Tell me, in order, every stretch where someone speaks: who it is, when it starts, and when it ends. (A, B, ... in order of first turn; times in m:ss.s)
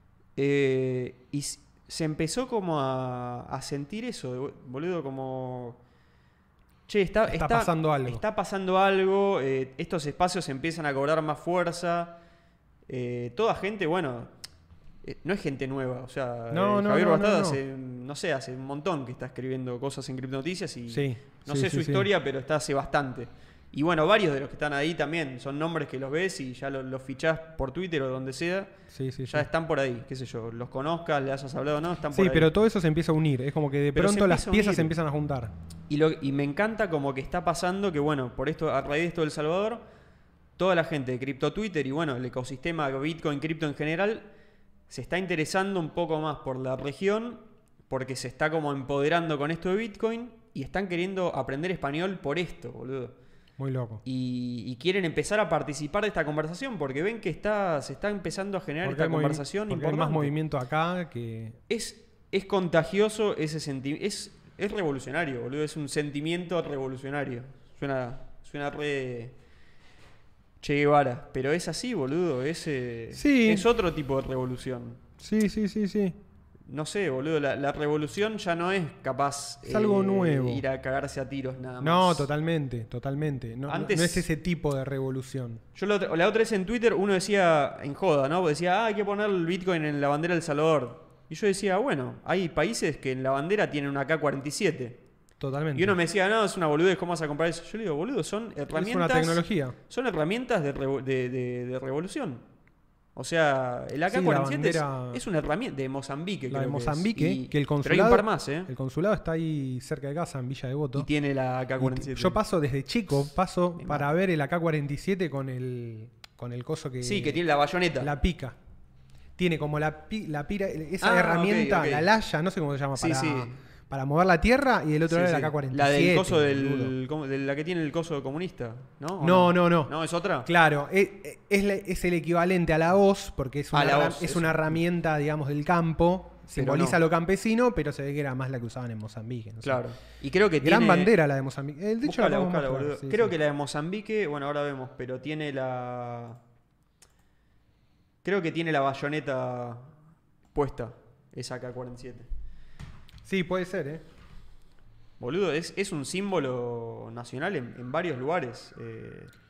0:00.4-0:05.8 A
0:06.9-0:12.2 A
0:07.3-0:08.2 B
0:12.9-0:14.3 A
0:15.0-0:28.8 A
0:16.5-0:17.6 B
0:20.9-0:22.1 B
0:28.9-0:29.5 B
0:29.3-0:32.5 A
0:32.1-0:35.5 B
0:33.9-0:34.9 A
0:35.9-0:39.8 A
0:40.6-0:44.3 A
0:44.9-0:53.2 A
0:53.6-0:54.0 B
0:54.0-1:00.3 A
0:58.8-1:01.6 B
1:01.7-1:09.4 A
1:10.6-1:15.0 A
1:13.1-1:13.7 B
1:15.2-1:16.2 B
1:16.7-1:22.3 A
1:19.6-1:20.6 B
1:21.8-1:25.6 B
1:23.7-1:24.3 A
1:25.7-1:35.0 A
1:35.4-1:36.0 B
1:35.7-1:42.4 A
1:38.7-1:39.8 B
1:43.2-1:48.7 A
1:44.1-1:45.2 B
1:46.5-1:51.1 B
1:50.9-1:52.4 A
1:51.8-1:57.4 B
1:53.8-1:54.1 A
1:57.0-1:58.1 A
1:58.0-1:58.6 B
1:59.4-2:06.9 B
2:01.0-2:02.1 A
2:03.0-2:03.6 A
2:05.1-2:10.5 A
2:09.2-2:09.9 B
2:10.4-2:19.8 B
2:13.7-2:14.7 A
2:16.5-2:17.0 A
2:19.6-2:21.1 A
2:20.6-2:23.3 B
2:22.0-2:26.4 A
2:28.2-2:30.0 A
2:30.5-2:32.3 A
2:33.2-2:34.0 B
2:35.2-2:39.3 A